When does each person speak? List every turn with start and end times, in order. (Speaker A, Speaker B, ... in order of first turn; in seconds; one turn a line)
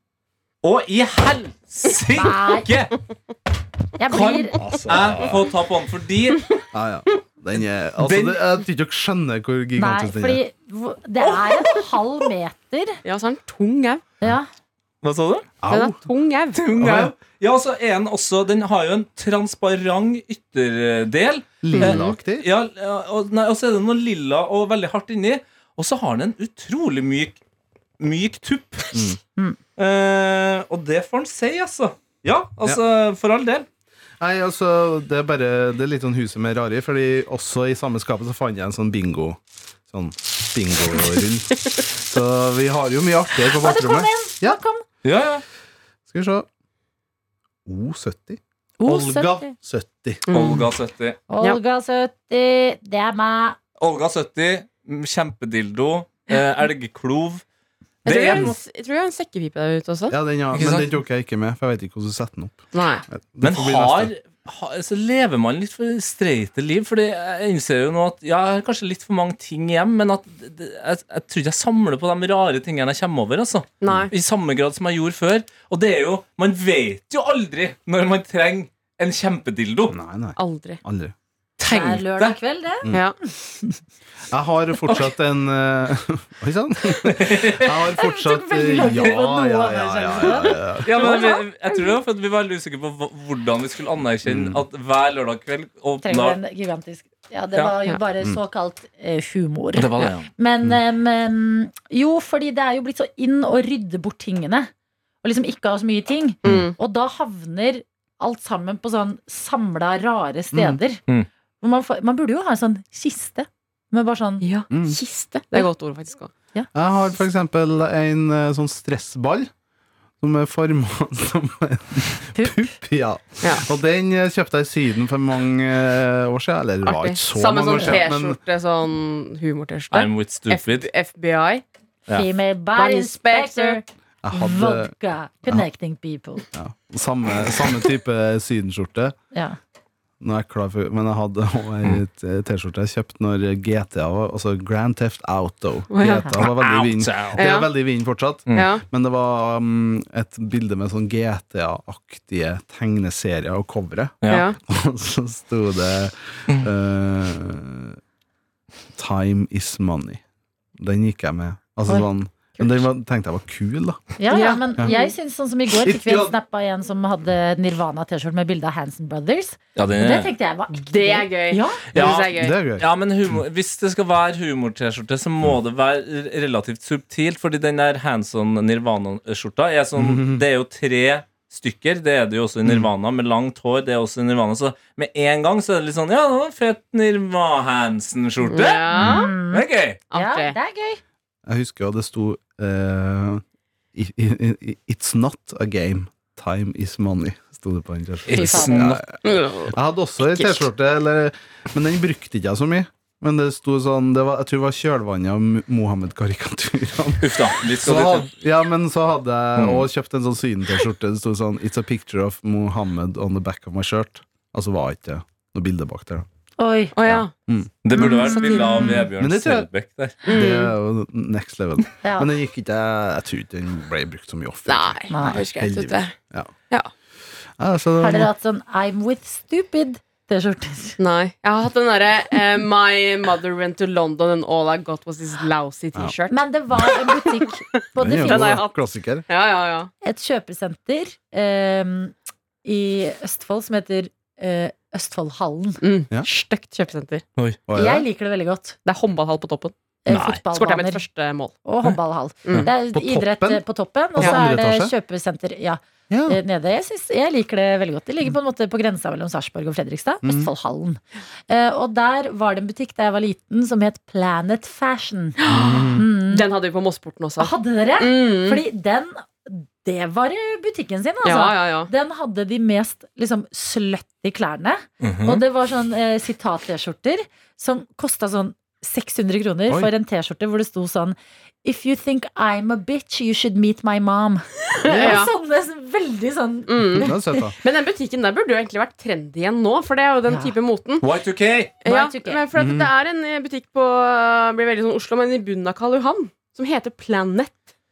Speaker A: 0.6-3.0
Speaker B: 2.1-2.7
Speaker B: 4.0-4.6
Speaker A: 4.1-6.5
Speaker C: 4.5-5.4
Speaker C: 6.7-10.4
Speaker A: 8.0-8.4
Speaker B: 9.8-13.0
Speaker A: 11.3-11.7
Speaker D: 13.0-14.1
Speaker B: 14.2-14.5
Speaker A: 15.0-15.5
Speaker C: 15.6-16.0
Speaker D: 15.7-16.9
Speaker A: 16.5-27.4
Speaker C: 16.8-17.1
Speaker C: 21.6-22.5
Speaker D: 21.8-22.1
Speaker A: 28.0-29.0
Speaker C: 28.9-29.2
Speaker A: 29.8-33.6
Speaker C: 34.2-44.6
Speaker B: 43.6-44.8
Speaker A: 45.0-45.4
Speaker C: 46.1-46.5
Speaker C: 47.6-50.3
Speaker B: 48.8-49.5
Speaker D: 50.3-50.6
Speaker A: 50.3-51.2
Speaker B: 51.3-53.6
Speaker A: 53.8-57.4
Speaker A: 58.0-58.6
Speaker D: 58.0-60.1
Speaker C: 60.1-64.1
Speaker A: 60.5-61.0
Speaker D: 62.7-63.0
Speaker A: 63.4-80.0
Speaker D: 73.8-74.1
Speaker C: 79.9-81.1
Speaker D: 80.4-80.8
Speaker A: 81.6-82.3
Speaker B: 81.7-83.8
Speaker C: 84.3-91.1
Speaker A: 87.1-87.7
Speaker B: 87.9-90.6
Speaker A: 90.8-96.4
Speaker D: 91.0-91.9
Speaker C: 94.2-94.6
Speaker B: 96.0-104.7
Speaker A: 99.8-100.3
Speaker B: 105.2-111.0
Speaker C: 106.4-106.7
Speaker D: 106.4-106.7
Speaker C: 110.5-110.8
Speaker B: 111.6-114.5
Speaker D: 114.4-116.3
Speaker C: 114.7-115.0
Speaker C: 116.7-119.5
Speaker C: 120.2-128.4
Speaker B: 122.3-122.7
Speaker D: 126.8-131.6
Speaker A: 129.9-130.9
Speaker B: 132.1-136.4
Speaker D: 132.7-133.8
Speaker C: 134.2-135.7
Speaker C: 136.5-139.1
Speaker B: 139.3-139.6
Speaker C: 140.2-158.0
Speaker D: 145.9-146.2
Speaker A: 146.3-147.4
Speaker D: 147.4-147.7
Speaker D: 148.5-148.8
Speaker A: 154.2-154.5
Speaker D: 154.3-154.6
Speaker C: 158.9-160.2
Speaker C: 160.8-164.9
Speaker D: 162.6-162.8
Speaker B: 164.2-171.8
Speaker D: 164.3-165.1
Speaker C: 165.8-166.3
Speaker A: 169.8-170.3
Speaker D: 170.8-172.6
Speaker A: 171.9-190.0
Speaker C: 172.0-173.4
Speaker C: 179.9-180.4
Speaker D: 188.4-189.3
Speaker B: 188.9-191.0
Speaker C: 189.0-189.2
Speaker D: 190.1-190.6
Speaker C: 191.4-193.4
Speaker C: 193.9-216.2
Speaker A: 198.3-199.0
Speaker D: 198.3-198.7
Speaker B: 198.4-198.9
Speaker D: 199.2-200.7
Speaker A: 207.2-208.3
Speaker A: 209.6-209.9
Speaker B: 216.6-216.9
Speaker D: 216.9-217.3
Speaker C: 217.1-218.3
Speaker A: 217.8-220.3
Speaker B: 217.9-219.1
Speaker D: 218.2-218.7
Speaker C: 218.9-219.7
Speaker C: 220.2-226.5
Speaker D: 220.2-220.7
Speaker B: 222.0-222.3
Speaker D: 224.7-226.2
Speaker B: 225.1-225.4
Speaker C: 227.6-228.3
Speaker B: 228.0-231.0
Speaker D: 231.0-239.9
Speaker B: 236.3-238.6
Speaker C: 238.0-239.3
Speaker B: 240.0-246.6
Speaker D: 245.8-246.1
Speaker D: 246.6-247.2
Speaker C: 247.7-248.1
Speaker B: 247.7-248.8
Speaker D: 248.8-249.8
Speaker B: 250.0-251.0
Speaker A: 250.1-250.4
Speaker D: 250.5-251.6
Speaker B: 251.6-265.4
Speaker D: 252.4-252.7
Speaker C: 252.9-254.9
Speaker C: 256.1-256.4
Speaker C: 260.2-260.5
Speaker D: 265.4-268.6
Speaker C: 265.5-266.1
Speaker B: 265.9-266.4
Speaker B: 267.4-287.4
Speaker D: 271.2-271.9
Speaker A: 275.0-275.4
Speaker C: 284.9-285.2
Speaker D: 284.9-285.3
Speaker D: 286.7-291.0
Speaker C: 286.9-287.5
Speaker B: 290.3-290.6
Speaker A: 291.0-291.8
Speaker D: 291.8-297.6
Speaker B: 291.8-292.4
Speaker C: 292.6-292.9